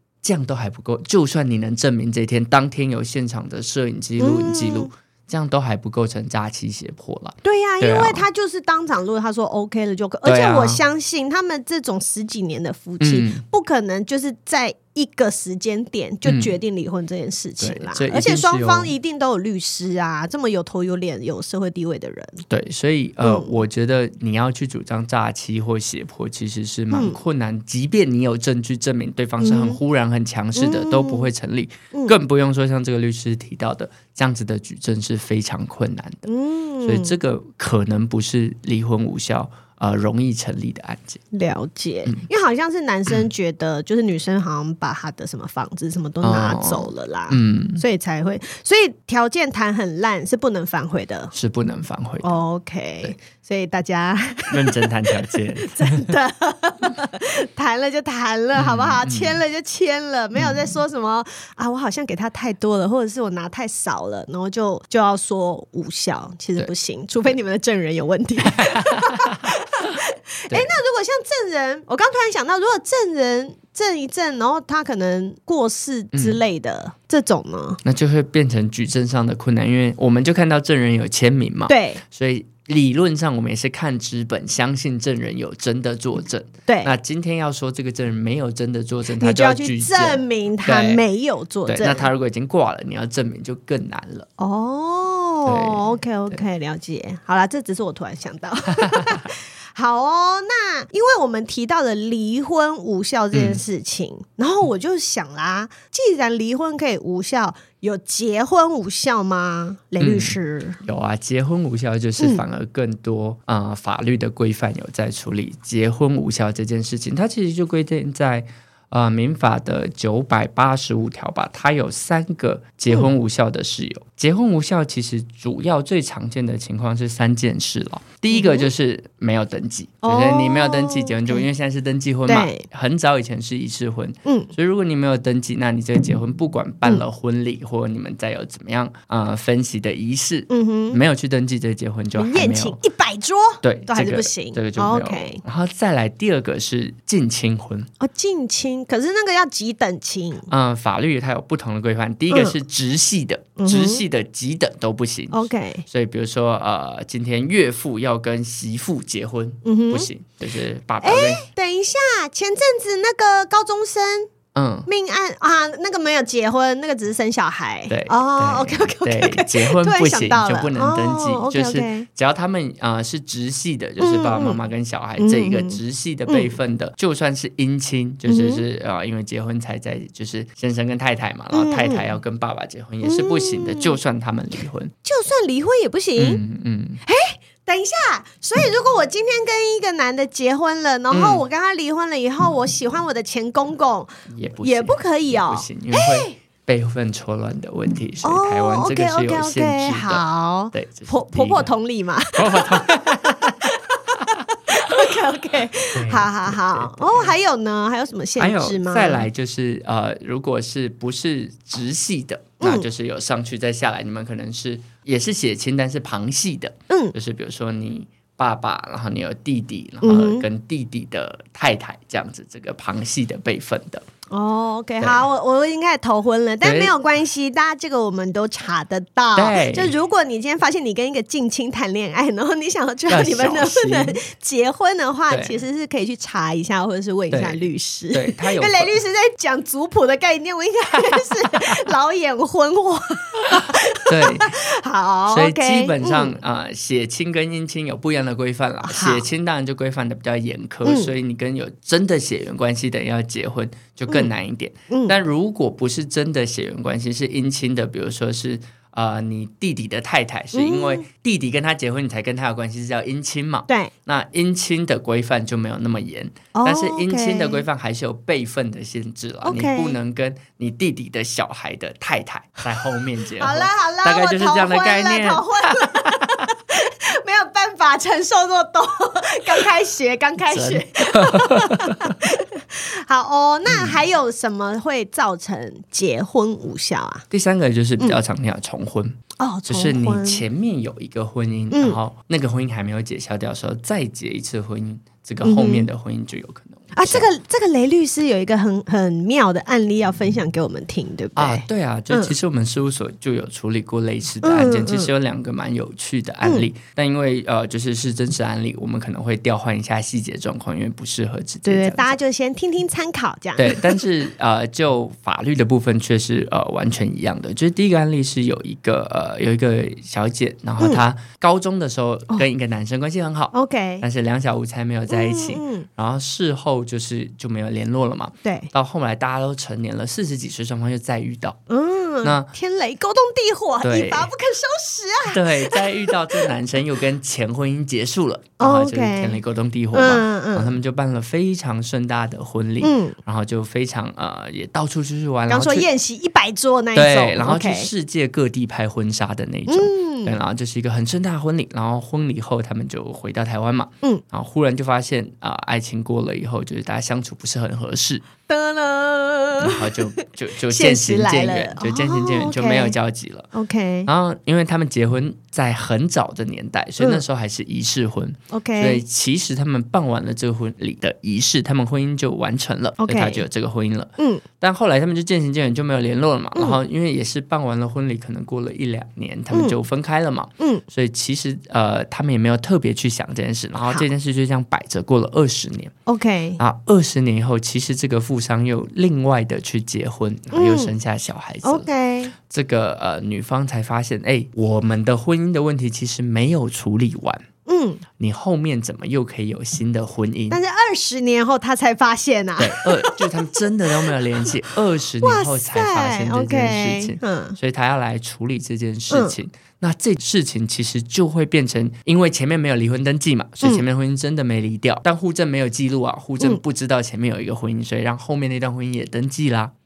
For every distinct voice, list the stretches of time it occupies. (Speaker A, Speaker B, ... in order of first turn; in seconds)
Speaker A: 0.2-8.2, 10.2-10.8, 13.0-13.4, 16.2-16.5, 17.6-18.9, 22.5-36.2, 36.8-41.2, 46.2-47.8, 51.3-52.4, 54.5-56.1, 58.5-59.4, 60.4-60.8, 68.5-69.4, 76.1-76.4, 77.8-91.0, 91.7-94.3, 95.5-96.4, 103.3-103.6, 110.0-142.8, 143.6-147.9, 150.5-161.4, 164.5-164.9, 167.9-184.9, 186.2-187.0, 191.1-191.4, 194.3-201.7, 202.3-203.7, 205.9-207.3, 208.4-224.0, 226.6-226.9, 229.3-229.9, 233.1-234.2, 235.3-235.6, 237.3-238.9, 241.0-241.7, 243.5-244.6, 245.3-276.5, 280.5-282.1, 283.7-284.0, 287.3-297.3, 301.4-312.2, 313.6-331.6, 332.2-332.5, 333.8-334.3, 335.3-345.9, 346.9-358.2, 359.6-363.5, 364.1-385.9, 386.6-397.4, 398.2-400.6, 402.6-419.7
Speaker B: 4.2-4.9, 7.4-22.4, 23.2-23.5, 26.9-27.2, 29.4-29.8, 30.6-31.3, 36.2-37.1, 41.3-51.3, 52.2-77.8, 81.7-82.0, 86.7-86.9, 89.2-92.1, 94.4-110.8, 128.3-128.7, 130.0-131.4, 132.3-132.6, 134.2-134.5, 140.5-141.0, 142.1-145.4, 148.0-150.5, 152.3-152.6, 153.6-154.0, 155.3-155.8, 159.6-160.1, 161.0-164.3, 164.9-172.1, 174.0-174.6, 175.2-176.6, 178.3-178.6, 181.5-182.1, 183.0-184.0, 185.0-186.4, 187.1-196.3, 198.2-202.9, 203.6-209.2, 212.6-212.9, 220.0-220.4, 224.3-246.3, 248.8-249.2, 250.8-251.1, 254.9-255.2, 260.5-261.1, 266.5-267.6, 269.4-270.0, 273.4-287.2, 289.4-290.4, 291.7-292.0, 295.4-295.9, 296.9-302.3, 304.4-305.1, 311.6-314.0, 323.5-324.0, 325.1-325.9, 328.4-328.7, 331.7-336.5, 338.6-339.4, 339.9-340.7, 342.8-343.1, 345.5-347.9, 349.7-350.4, 358.4-362.9, 363.5-364.1, 368.5-369.0, 373.0-373.4, 374.2-374.4, 386.1-386.6, 390.5-390.9, 391.6-392.3, 397.6-398.0, 400.5-403.5, 405.2-407.6